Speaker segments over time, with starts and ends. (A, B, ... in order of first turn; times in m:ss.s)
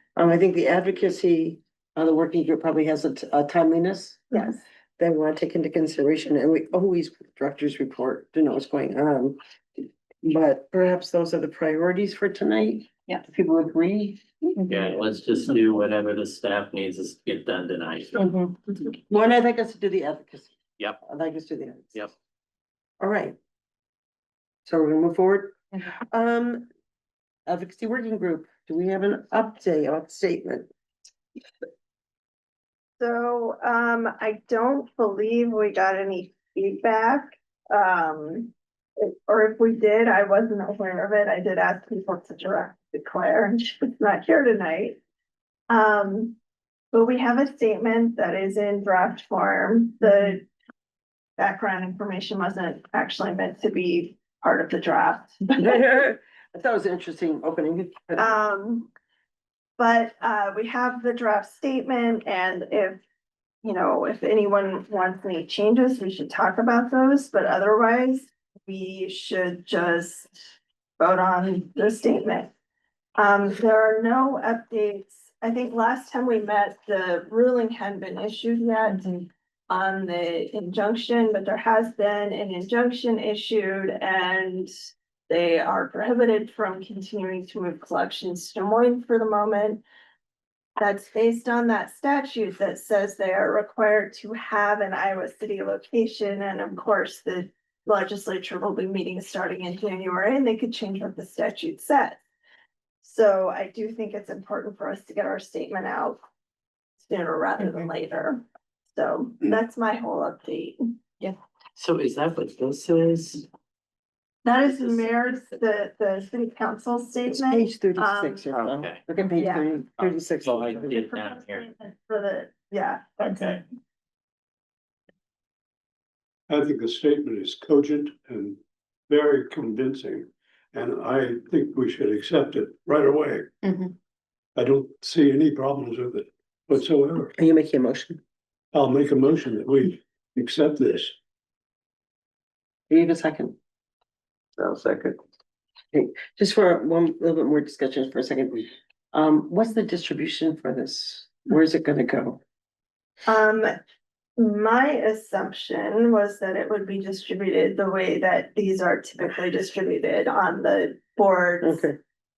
0:00.2-0:14.8 A
0:14.7-0:18.2 B
0:18.2-0:22.1 A
0:23.0-0:23.4 A
0:24.6-0:26.7 A
0:27.5-0:30.7 A
0:33.0-0:45.0 C
0:45.7-0:46.4 C
0:46.9-0:50.5 C
0:51.4-0:55.7 C
0:55.6-0:58.3 A
0:58.2-0:58.9 C
0:59.8-1:03.0 C
1:03.6-1:10.4 C
1:11.0-1:12.5 C
1:13.2-1:24.7 C
1:25.3-1:29.8 C
1:30.8-1:42.2 C
1:43.0-1:46.2 C
1:47.0-1:50.8 C
1:51.7-1:53.5 B
1:54.4-1:58.5 C
1:57.3-2:01.0 A
1:58.5-1:59.0 B
1:59.4-1:59.8 C
2:00.0-2:01.7 B
2:00.9-2:03.6 C
2:06.5-2:13.5 D
2:14.6-2:17.3 D
2:17.3-2:18.2 A
2:18.7-2:21.1 D
2:22.9-2:23.6 A
2:24.6-2:25.2 A
2:25.9-2:32.4 A
2:33.2-2:33.7 C
2:34.4-2:41.8 C
2:41.6-2:42.0 A